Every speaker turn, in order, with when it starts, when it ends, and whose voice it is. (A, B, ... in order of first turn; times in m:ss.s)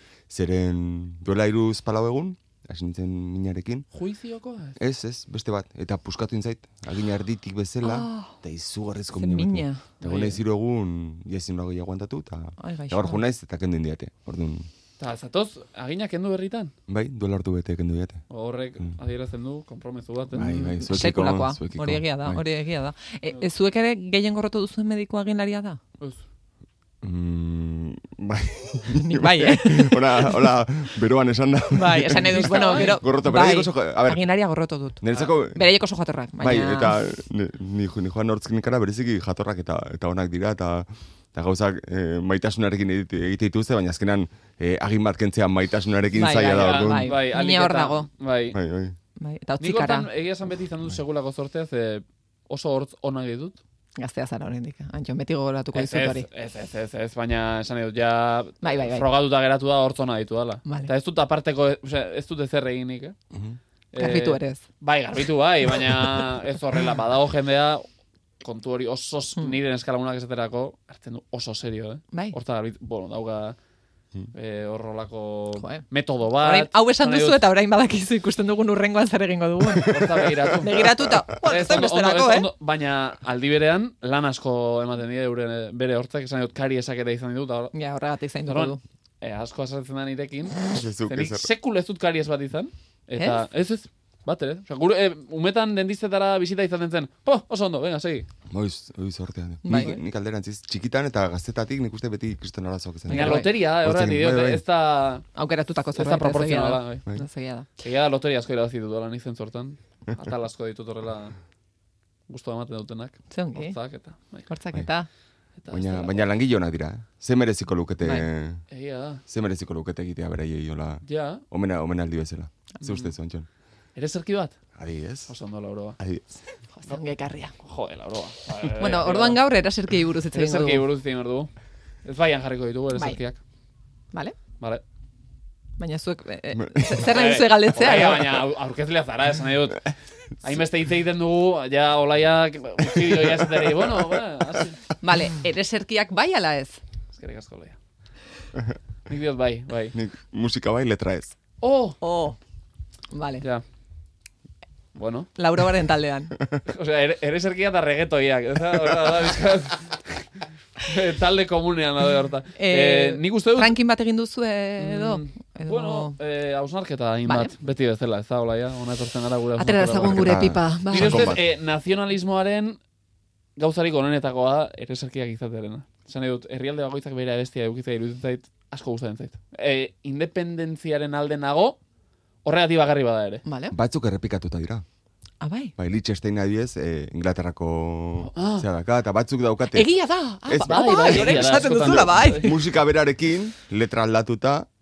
0:00.3-0:03.9 A
0:03.9-0:04.8 B
0:04.8-0:14.7 A
0:07.8-0:08.4 C
0:09.1-0:09.9 C
0:10.0-0:10.4 B
0:12.6-0:13.2 C
0:15.0-0:16.7 B
0:16.9-0:18.2 A
0:18.3-0:20.6 B
0:20.3-0:22.4 A
0:20.4-0:25.8 C
0:26.0-0:26.2 B
0:27.0-0:34.3 A
0:29.0-0:30.5 C
0:31.7-0:37.0 C
0:32.2-0:33.0 B
0:35.0-0:35.7 A
0:36.4-0:47.1 A
0:46.1-0:48.1 C
0:46.6-0:48.6 B
0:48.5-0:49.0 A
0:49.2-0:50.1 C
0:49.6-0:53.6 B
0:54.0-0:56.3 C
0:55.7-1:03.2 B
0:58.6-0:59.1 C
1:00.7-1:00.9 C
1:03.3-1:03.6 A
1:03.9-1:07.8 B
1:04.0-1:04.6 C
1:08.4-1:13.6 B
1:14.3-1:17.5 B
1:15.6-1:20.0 C
1:19.8-1:27.7 B
1:20.6-1:22.5 C
1:27.7-1:28.8 C
1:28.5-1:38.3 B
1:30.7-1:31.5 A
1:33.2-1:33.4 C
1:38.5-1:44.6 A
1:39.6-1:40.0 C
1:43.1-1:43.6 C
1:43.1-1:45.2 B
1:45.4-1:47.7 C
1:46.0-1:47.0 B
1:47.8-1:51.4 B
1:52.3-1:54.5 B
1:53.3-1:53.8 C
1:54.5-1:55.1 C
1:55.6-1:56.3 B
1:55.7-1:58.6 A
1:58.0-1:58.3 C
1:58.7-1:59.2 B
1:59.3-2:03.5 A
2:01.0-2:01.4 B
2:04.0-2:04.6 B
2:04.8-2:05.3 A
2:05.3-2:06.0 B
2:06.0-2:06.4 A
2:06.8-2:07.5 C
2:07.6-2:09.4 B
2:08.8-2:10.9 C
2:10.3-2:11.5 B
2:12.0-2:13.4 B
2:15.8-2:18.4 C
2:16.5-2:17.1 A
2:17.1-2:19.9 B
2:20.4-2:24.8 B
2:23.1-2:23.8 A
2:25.0-2:26.8 C
2:27.1-2:27.8 B
2:29.1-2:30.0 B
2:29.9-2:31.4 A
2:31.6-2:32.0 B
2:32.0-2:32.4 C
2:33.1-2:33.4 C
2:35.0-2:35.3 B
2:35.4-2:36.4 C
2:36.6-2:43.8 B
2:42.6-2:46.2 C
2:44.8-2:50.4 B
2:47.3-2:47.5 C
2:49.6-2:51.4 C
2:50.0-2:51.4 A
2:50.9-2:52.8 B
2:53.6-3:01.8 B
3:02.4-3:03.4 B
3:03.5-3:03.8 C
3:03.7-3:04.8 A
3:05.4-3:05.7 C
3:05.8-3:09.9 A
3:08.2-3:08.7 B
3:09.7-3:12.6 C
3:10.4-3:14.7 A
3:10.6-3:12.5 B